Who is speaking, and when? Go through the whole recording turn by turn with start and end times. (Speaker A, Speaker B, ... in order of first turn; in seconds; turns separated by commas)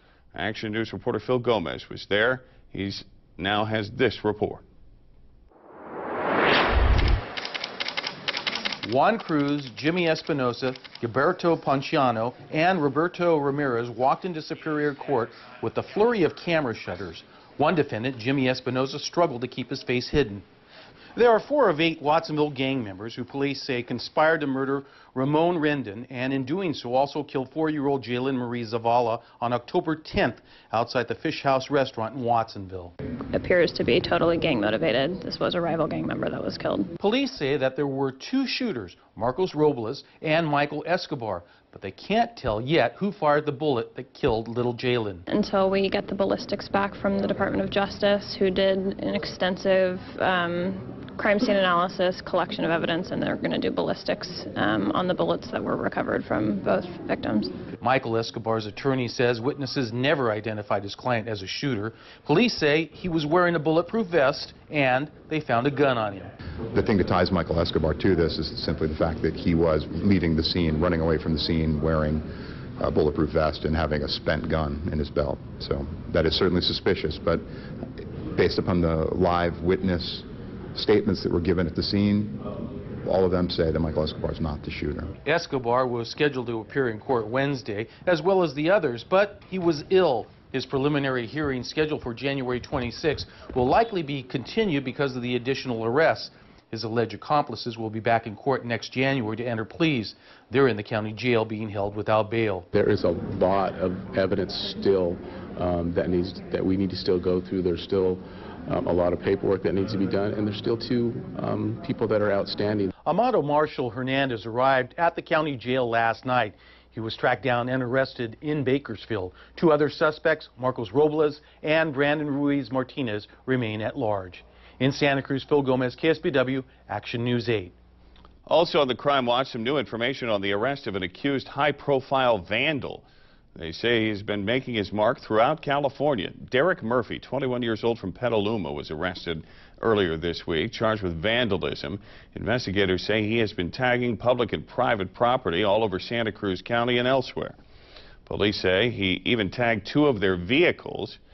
Speaker A: 0.3-4.6, Speaker B: 8.8-20.4, Speaker B: 21.2-32.9, Speaker C: 33.3-36.9, Speaker B: 37.0-45.2, Speaker C: 45.3-57.5, Speaker B: 57.8-66.3, Speaker D: 66.7-72.3, Speaker D: 72.8-77.4, Speaker D: 78.3-82.4, Speaker D: 83.0-85.1, Speaker B: 85.3-102.7, Speaker E: 102.7-112.9, Speaker B: 113.0-127.7, Speaker A: 128.5-133.0, Speaker A: 133.6-147.6, Speaker A: 148.3-151.2